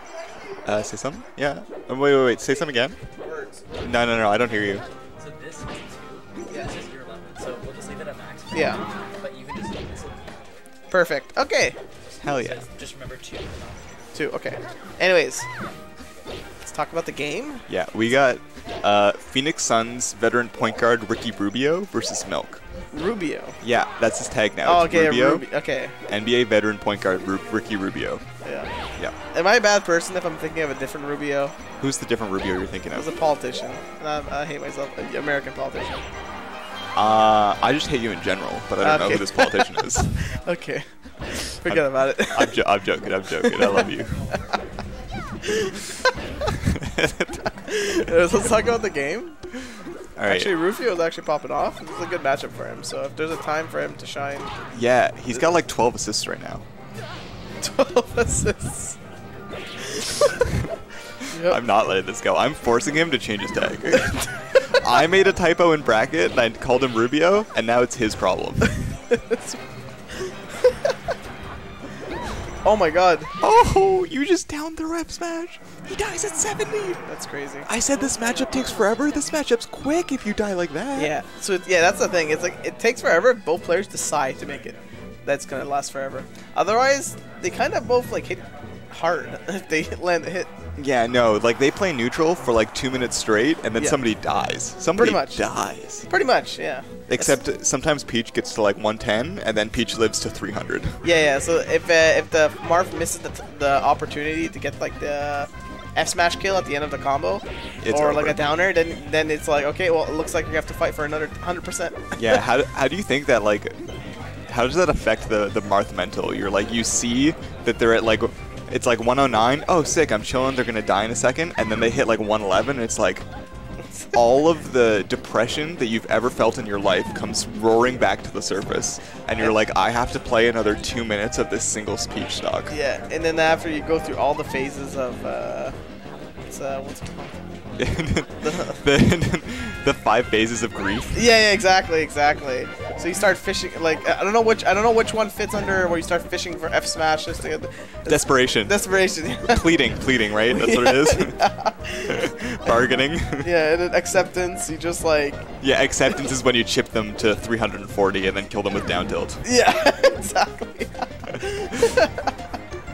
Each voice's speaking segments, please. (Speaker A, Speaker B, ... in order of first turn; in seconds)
Speaker A: 0.6-3.0, 3.8-4.8, 12.2-12.7, 17.7-22.6, 23.6-25.4, 26.1-28.2, 31.8-33.1, 36.9-40.3, 41.7-44.3, 46.9-47.4, 50.1-50.5, 54.7-56.6, 61.4-68.7, 73.4-77.0, 77.7-81.1, 90.8-96.1, 97.1-101.0, 107.8-108.4, 112.2-113.8, 114.5-123.2, 124.1-132.8, 137.8-141.2, 148.1-148.8, 149.4-151.4, 152.1-153.5, 155.6-159.4
Speaker B: 5.2-10.6, 12.0-14.1
Speaker C: 8.5-8.8, 10.9-11.8, 14.1-15.4, 16.6-17.6, 22.9-23.6, 24.6-25.9, 28.4-28.7, 29.3-31.6, 32.9-36.0, 38.8-42.6, 43.4-43.8, 47.7-49.4, 50.2-54.5, 57.6-59.0, 61.3-61.6, 72.6-73.3, 77.0-78.6, 81.0-90.5, 93.8-94.0, 94.9-95.5, 96.1-97.4, 101.0-112.4, 132.7-135.7, 136.5-137.4, 138.4-138.8, 141.1-149.6, 150.5-152.7, 153.4-155.5, 159.4-162.3